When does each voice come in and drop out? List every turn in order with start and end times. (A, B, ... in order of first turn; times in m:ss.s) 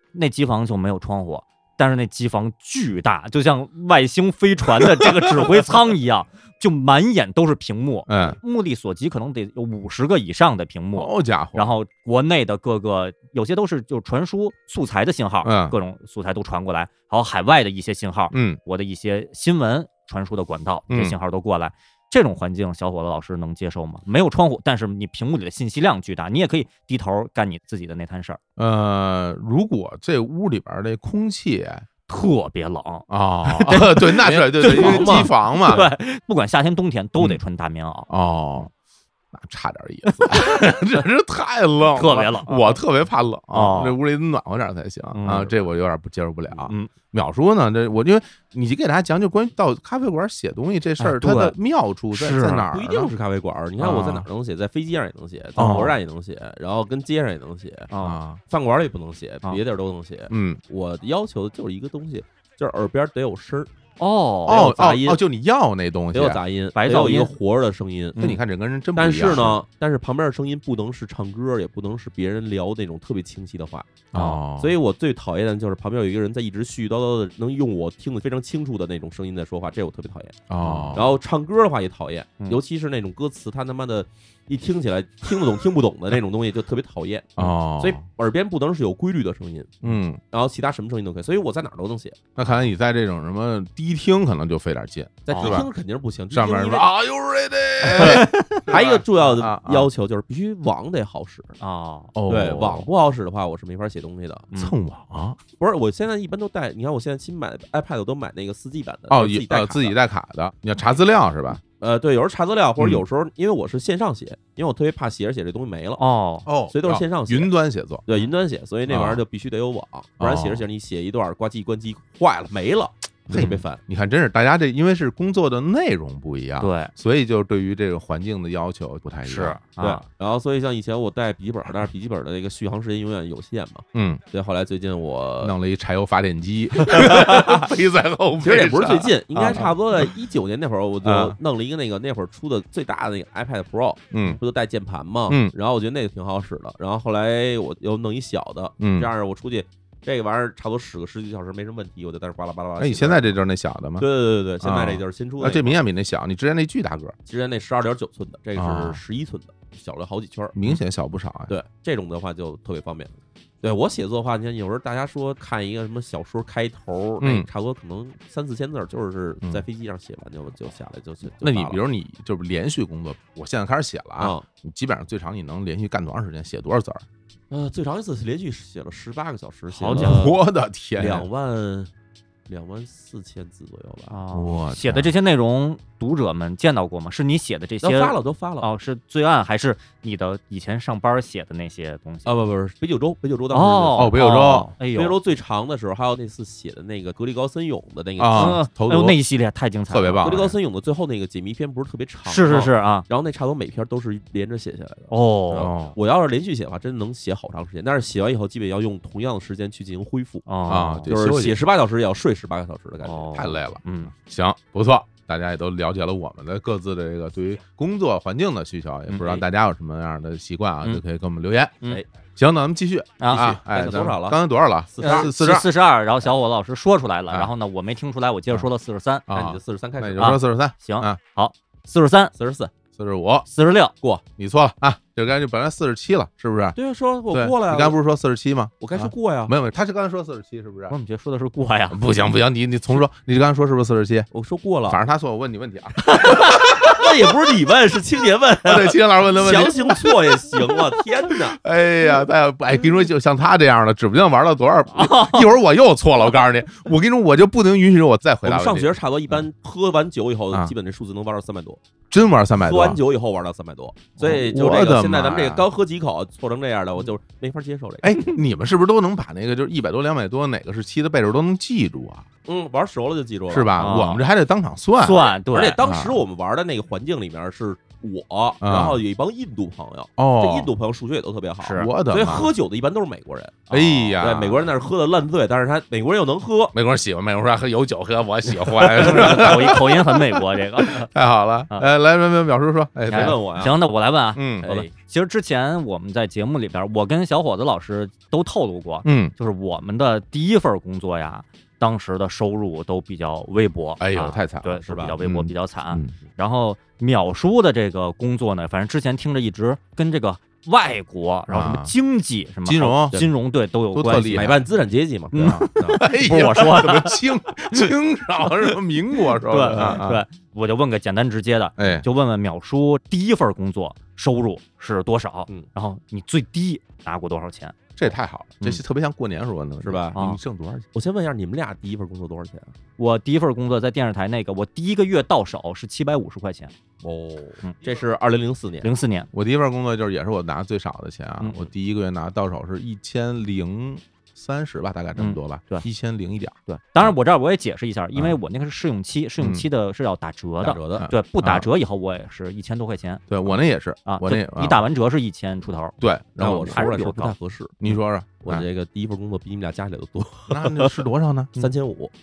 0:00.1-0:28.4 A
0:05.0-0:05.4 B
0:08.1-0:08.4 B
0:10.9-0:11.7 B
0:15.4-0:15.8 B
0:18.3-0:18.6 B
0:20.9-0:21.2 B
0:28.6-0:31.8 B
0:32.1-0:38.1 A
0:33.1-0:35.9 B
0:34.2-0:35.3 C
0:38.1-0:38.7 B
0:39.3-0:53.1 B
0:40.1-0:40.6 A
0:41.9-0:42.8 A
0:43.5-0:44.0 A
0:45.1-0:45.5 A
0:46.6-0:46.9 A
0:51.0-0:51.6 A
0:52.1-0:52.6 A
0:52.7-0:57.9 C
0:53.8-0:54.2 B
0:55.6-0:56.0 B
0:57.9-0:58.2 A
0:58.0-0:58.4 B
0:58.5-1:03.7 C
1:00.3-1:00.6 B
1:04.0-1:04.7 A
1:04.4-1:05.2 C
1:04.5-1:06.4 B
1:06.1-1:08.2 C
1:06.8-1:07.3 A
1:08.2-1:09.6 B
1:08.9-1:14.0 C
1:14.1-1:14.7 B
1:14.1-1:14.4 A
1:14.6-1:32.2 C
1:20.5-1:21.2 B
1:20.6-1:21.0 A
1:27.4-1:28.0 B
1:29.8-1:30.2 B
1:32.4-1:35.7 B
1:35.2-1:36.9 C
1:35.3-1:35.6 A
1:36.3-1:39.9 B
1:37.8-1:41.6 C
1:37.9-1:38.7 A
1:41.6-1:42.1 A
1:42.1-1:42.9 B
1:42.3-1:44.5 C
1:44.5-1:45.4 B
1:45.6-1:50.0 C
1:49.1-1:51.6 B
1:51.8-1:56.0 C
1:52.8-1:53.0 B
1:56.0-1:56.5 A
1:56.4-1:58.0 B
1:56.7-1:57.5 C
1:58.0-2:03.8 C
1:58.9-1:59.2 B
2:00.2-2:00.6 B
2:03.3-2:09.6 B
2:06.6-2:06.9 A
2:09.2-2:10.0 A
2:09.8-2:15.5 C
2:13.9-2:14.2 B
2:15.4-2:20.1 B
2:16.8-2:17.6 C
2:18.4-2:33.4 C
2:21.0-2:21.4 B
2:24.1-2:24.4 B
2:25.3-2:25.5 B
2:28.8-2:29.1 B
2:32.8-2:34.0 B
2:34.0-2:35.8 C
2:34.6-2:37.1 B
2:37.3-2:40.8 C
2:38.6-2:39.0 B
2:40.5-2:41.6 B
2:41.5-2:51.8 C
2:47.2-2:47.5 B
2:51.4-2:57.0 B
2:54.2-2:54.4 C
2:57.5-3:00.4 C
2:59.7-3:00.2 A
2:59.9-3:01.3 B
3:01.0-3:01.9 C
3:02.5-3:04.1 C
3:04.1-3:12.3 A
3:04.3-3:05.1 B
3:07.8-3:08.7 C
3:12.2-3:14.2 C
3:13.5-3:15.2 A
3:13.9-3:14.7 B
3:14.9-3:18.6 C
3:18.2-3:19.2 B
3:18.3-3:20.4 A
3:19.9-3:20.6 B
3:20.2-3:30.5 C
3:22.2-3:23.0 A
3:25.1-3:25.7 A
3:25.5-3:26.0 B
3:30.4-3:31.1 A
3:30.7-3:31.6 B
3:31.1-3:33.4 C
3:33.0-3:34.1 A
3:33.3-3:41.8 B
3:39.1-3:39.4 C
3:42.4-3:45.7 B
3:43.2-3:43.5 A
3:43.3-3:44.4 C
3:44.9-3:45.6 C
3:45.0-3:49.2 A
3:49.3-3:51.2 B
3:49.3-3:50.4 C
3:50.2-3:52.3 A
3:52.3-3:52.7 C
3:53.0-3:53.5 B
3:53.5-3:53.9 A
3:54.4-3:56.8 B
3:56.8-3:58.0 C
3:57.3-4:00.9 B
3:58.8-3:59.5 C
4:00.9-4:02.0 A
4:01.9-4:04.3 B
4:04.3-4:05.0 C
4:04.9-4:07.0 B
4:06.1-4:06.4 A
4:06.5-4:11.6 C
4:08.6-4:10.4 B
4:11.6-4:19.4 B
4:15.0-4:15.4 A
4:18.4-4:21.8 C
4:22.1-4:23.0 B
4:22.6-4:28.2 C
4:24.2-4:25.7 B
4:28.0-4:32.2 B
4:32.4-4:33.9 C
4:33.5-4:35.2 B
4:33.8-4:34.2 A
4:35.0-4:35.8 A
4:35.5-4:46.7 C
4:35.8-4:36.2 B
4:38.6-4:39.0 B
4:40.2-4:40.7 B
4:41.6-4:41.9 A
4:41.7-4:42.5 B
4:43.7-4:44.7 B
4:43.7-4:44.1 A
4:46.7-4:50.1 B
4:48.9-4:51.1 A
4:49.0-4:49.5 C
4:50.8-4:53.4 B
4:53.1-5:14.6 A
4:53.1-4:53.8 C
4:54.3-4:54.7 B
4:54.6-4:54.9 C
4:59.0-4:59.3 B
5:04.0-5:06.1 B
5:04.9-5:05.1 C
5:11.5-5:11.9 B
5:12.6-5:13.2 B
5:13.9-5:14.6 B
5:14.3-5:16.0 C
5:15.3-5:17.2 A
5:15.4-5:20.2 B
5:19.5-5:27.9 A
5:19.7-5:20.0 C
5:21.8-5:22.0 B
5:28.0-5:30.9 B
5:29.8-5:30.2 C
5:30.9-5:32.7 C
5:33.0-5:36.7 A
5:37.0-5:38.9 C
5:38.8-5:39.3 A
5:39.3-5:47.1 B
5:45.2-5:45.8 A
5:46.7-5:53.2 A
5:49.4-5:49.6 B
5:50.6-5:51.1 C
5:51.0-5:51.7 B
5:53.3-5:54.8 B
5:54.0-5:57.3 A
5:56.0-5:56.9 B
5:56.4-5:57.8 C
5:57.8-5:58.7 B
5:58.4-6:01.0 C
6:00.5-6:01.6 B
6:01.6-6:02.1 C